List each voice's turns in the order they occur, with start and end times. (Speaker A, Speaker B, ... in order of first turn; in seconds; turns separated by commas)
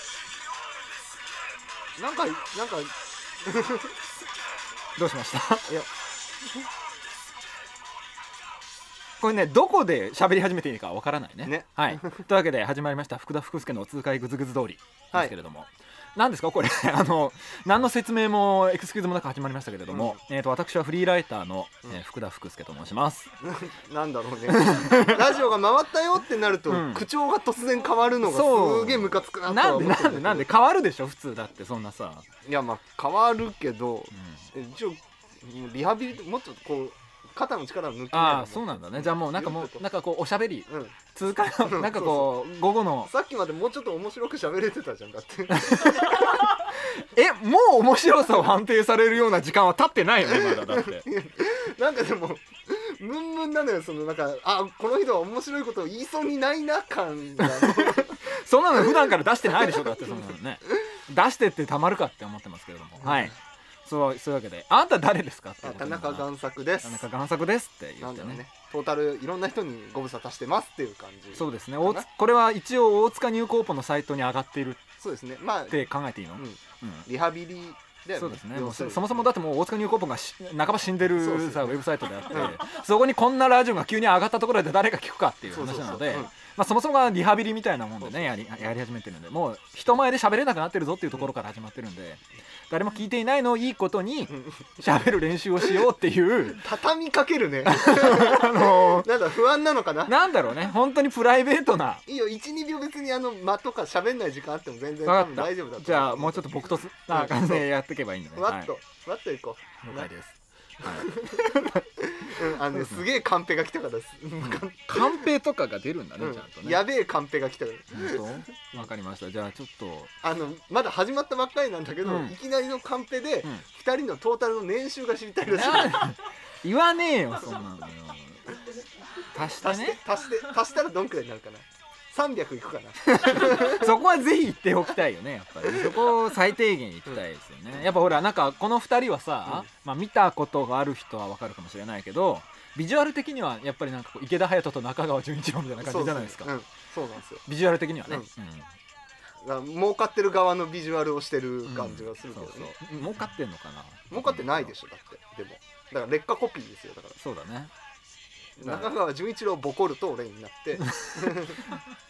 Speaker A: 2.0-3.9, Speaker B: 5.0-5.7, Speaker B: 9.2-23.3, Speaker A: 11.4-12.2, Speaker A: 19.9-20.2, Speaker A: 23.4-30.5, Speaker B: 24.5-25.2, Speaker B: 26.7-27.1, Speaker B: 28.2-32.2, Speaker A: 32.4-39.8, Speaker B: 34.1-34.4, Speaker B: 38.1-43.1, Speaker A: 40.7-41.0, Speaker A: 41.6-42.4, Speaker A: 43.1-46.3, Speaker B: 45.5-51.0, Speaker A: 50.2-60.1, Speaker B: 57.5-66.2, Speaker A: 63.0-63.3, Speaker A: 65.6-67.0, Speaker B: 66.8-68.4, Speaker A: 68.0-72.1, Speaker B: 71.3-74.8, Speaker A: 75.0-75.8, Speaker B: 75.7-77.1, Speaker A: 76.4-79.3, Speaker B: 78.2-96.6, Speaker A: 81.2-82.6, Speaker A: 85.5-86.3, Speaker A: 88.0-88.5, Speaker A: 96.6-100.2, Speaker B: 97.6-99.1, Speaker B: 100.0-102.0, Speaker A: 102.1-107.7, Speaker B: 105.0-108.7, Speaker A: 108.3-110.1, Speaker B: 109.8-111.8, Speaker A: 110.8-115.3, Speaker B: 112.7-113.0, Speaker B: 114.4-116.8, Speaker A: 116.2-118.9, Speaker B: 117.9-120.1, Speaker A: 120.2-126.2, Speaker B: 122.0-122.3, Speaker B: 125.5-128.6, Speaker B: 129.3-130.0, Speaker A: 129.5-133.9, Speaker B: 133.1-146.5, Speaker A: 135.7-136.1, Speaker A: 145.8-147.4, Speaker B: 147.4-148.7, Speaker A: 149.4-152.8, Speaker B: 151.7-154.7, Speaker A: 154.1-157.2, Speaker B: 157.2-157.7, Speaker A: 158.6-161.7, Speaker B: 158.6-158.9